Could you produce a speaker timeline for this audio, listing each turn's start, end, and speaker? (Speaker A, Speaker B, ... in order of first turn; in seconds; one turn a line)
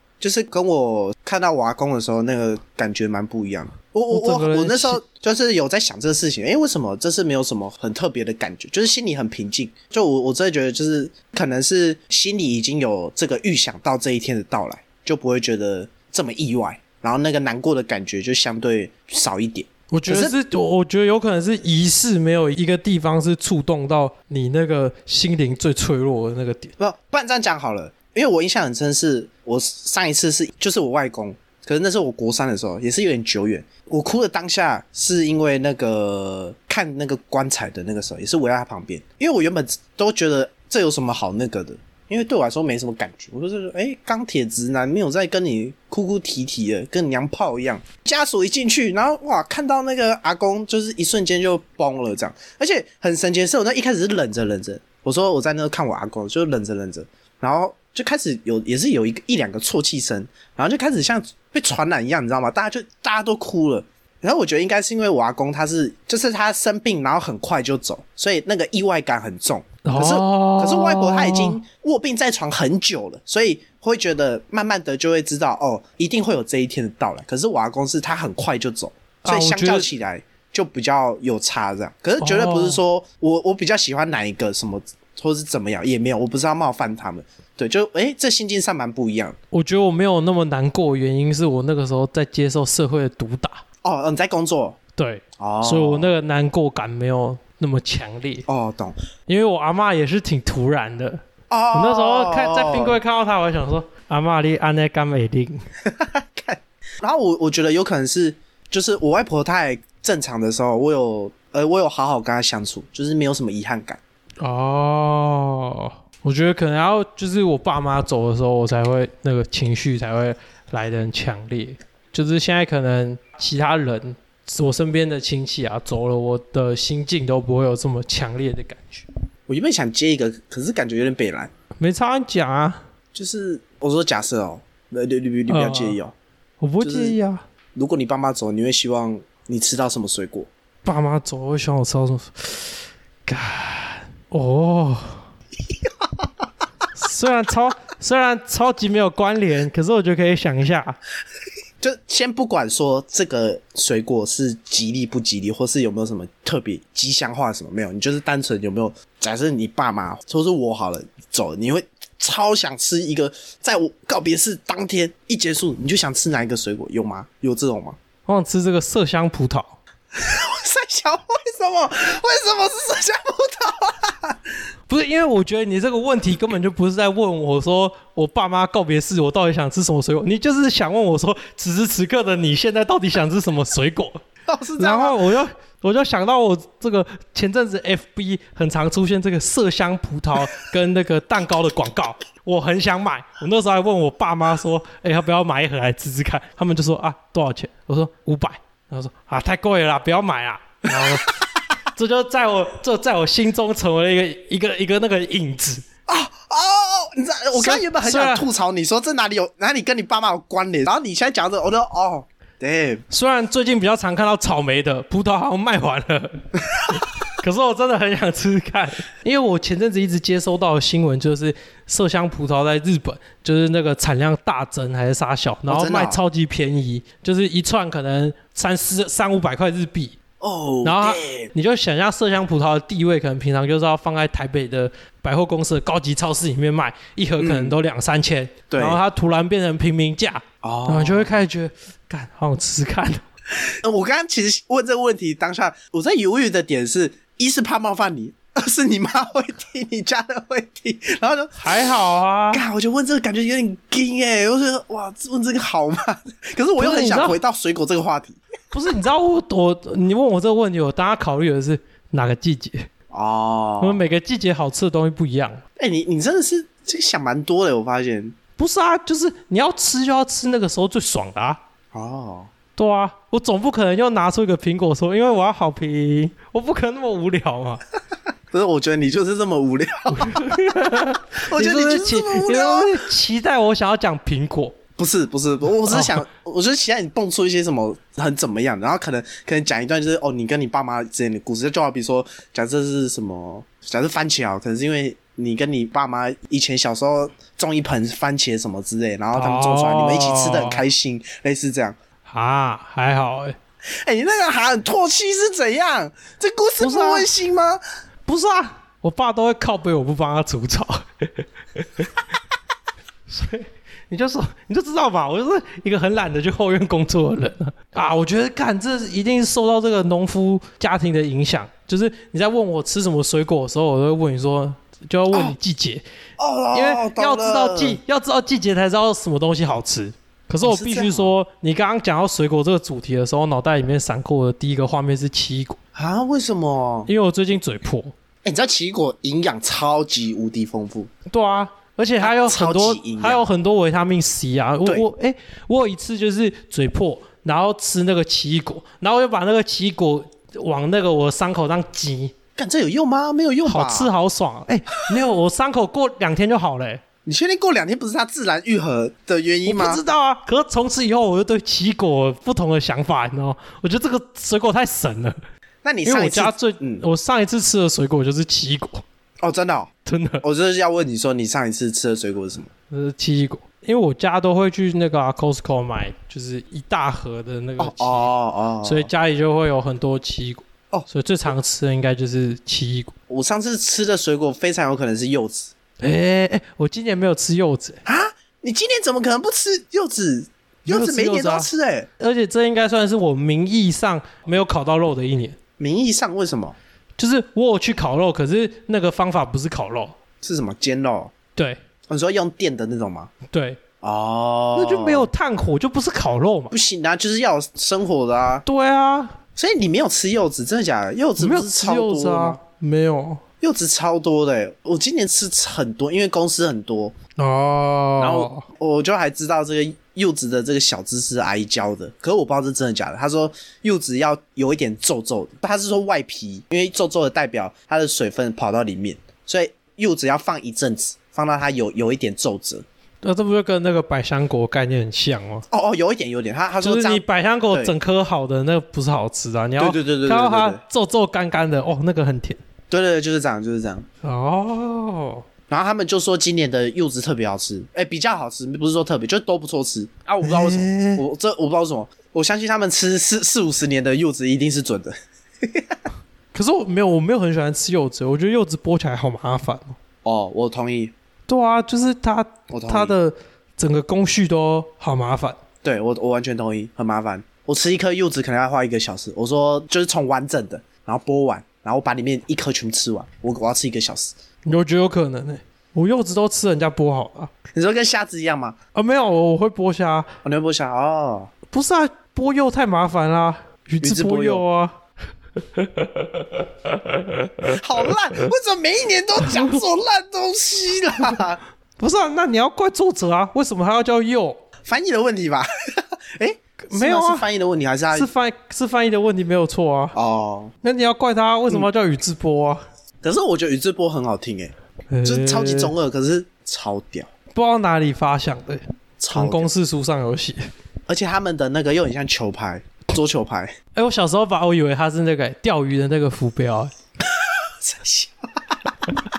Speaker A: 0.2-20.4
Speaker B: 4.1-5.0
Speaker B: 19.9-26.7
Speaker A: 26.8-89.3
Speaker B: 69.8-71.6
Speaker B: 79.2-79.9
Speaker B: 82.2-82.8
Speaker B: 89.5-93.6
Speaker A: 93.8-94.8
Speaker B: 94.9-98.5
Speaker A: 95.4-96.1
Speaker A: 98.5-99.0
Speaker B: 99.3-101.2
Speaker A: 101.5-103.0
Speaker B: 101.7-105.6
Speaker A: 105.8-114.0
Speaker B: 114.4-129.1
Speaker A: 129.5-131.5
Speaker B: 131.8-132.8
Speaker A: 133.1-136.1
Speaker B: 135.5-136.0
Speaker B: 136.6-137.4
Speaker A: 136.8-137.2
Speaker A: 137.7-140.5
Speaker B: 140.8-145.2
Speaker B: 146.9-151.0
Speaker A: 151.8-168.0
Speaker B: 168.2-169.8
Speaker A: 170.1-174.4
Speaker B: 174.9-184.2
Speaker A: 184.5-185.2
Speaker B: 184.8-201.2
Speaker A: 201.0-201.3
Speaker B: 201.9-205.8
Speaker A: 206.1-213.0
Speaker B: 207.5-208.4
Speaker B: 213.1-230.2
Speaker A: 225.7-226.2
Speaker A: 230.4-231.5
Speaker B: 230.8-243.2
Speaker A: 237.4-237.7
Speaker A: 238.7-239.0
Speaker A: 240.6-241.4
Speaker A: 243.6-251.6
Speaker B: 251.6-252.6
Speaker A: 252.5-258.4
Speaker B: 256.8-257.4
Speaker B: 258.7-262.9
Speaker A: 263.1-264.0
Speaker B: 263.8-265.6
Speaker A: 265.8-268.4
Speaker B: 268.6-271.6
Speaker A: 271.9-272.5
Speaker B: 272.8-277.8
Speaker A: 278.5-283.0
Speaker B: 280.1-284.8
Speaker A: 285.0-301.9
Speaker B: 285.9-286.2
Speaker B: 299.3-300.8
Speaker B: 302.2-303.6
Speaker A: 304.0-307.8
Speaker B: 306.8-307.3
Speaker B: 308.2-312.1
Speaker B: 313.3-326.0
Speaker A: 326.4-328.0
Speaker B: 326.7-335.8
Speaker A: 330.6-331.3
Speaker A: 335.9-337.1
Speaker B: 337.1-338.1
Speaker A: 338.4-341.1
Speaker B: 341.3-352.3
Speaker A: 342.2-343.4
Speaker A: 352.6-354.1
Speaker B: 353.6-357.0
Speaker A: 357.2-360.0
Speaker B: 359.6-365.4
Speaker A: 365.8-367.0
Speaker B: 366.0-369.0
Speaker A: 369.4-369.9
Speaker B: 370.1-370.4
Speaker A: 370.4-372.7
Speaker B: 372.9-378.3
Speaker A: 377.8-379.1
Speaker B: 378.8-383.1
Speaker A: 383.3-385.7
Speaker B: 386.0-388.0
Speaker A: 388.1-392.1
Speaker B: 390.9-395.6
Speaker A: 395.8-396.8
Speaker B: 397.2-400.1
Speaker A: 400.4-401.3
Speaker A: 402.1-403.3
Speaker B: 403.5-403.8
Speaker A: 404.0-405.3
Speaker B: 404.8-406.7
Speaker A: 406.7-408.6
Speaker B: 408.6-409.4
Speaker A: 409.6-412.6
Speaker B: 411.4-413.4
Speaker A: 413.6-417.1
Speaker B: 417.4-418.6
Speaker A: 418.2-432.8
Speaker B: 433.2-435.6
Speaker A: 435.7-437.9
Speaker B: 436.8-442.6
Speaker A: 439.8-440.8
Speaker A: 442.9-444.1
Speaker B: 444.2-445.4
Speaker A: 445.7-456.0
Speaker B: 450.4-451.2
Speaker B: 456.5-460.0
Speaker A: 460.2-461.1
Speaker B: 461.5-465.6
Speaker A: 462.7-463.1
Speaker A: 465.8-474.3
Speaker B: 474.6-477.5
Speaker A: 477.7-478.8
Speaker B: 478.9-480.3
Speaker A: 480.4-481.5
Speaker B: 481.7-484.9
Speaker A: 484.0-484.6
Speaker B: 485.7-487.7
Speaker A: 487.7-491.6
Speaker B: 489.4-489.8
Speaker B: 492.0-494.6
Speaker A: 494.9-498.3
Speaker B: 496.8-497.5
Speaker B: 498.1-500.1
Speaker A: 500.1-500.7
Speaker B: 500.8-502.8
Speaker A: 503.2-507.3
Speaker B: 505.1-505.9
Speaker B: 507.5-508.8
Speaker A: 509.2-509.7
Speaker B: 509.3-510.6
Speaker A: 511.1-513.7
Speaker B: 513.9-516.9
Speaker A: 517.4-519.0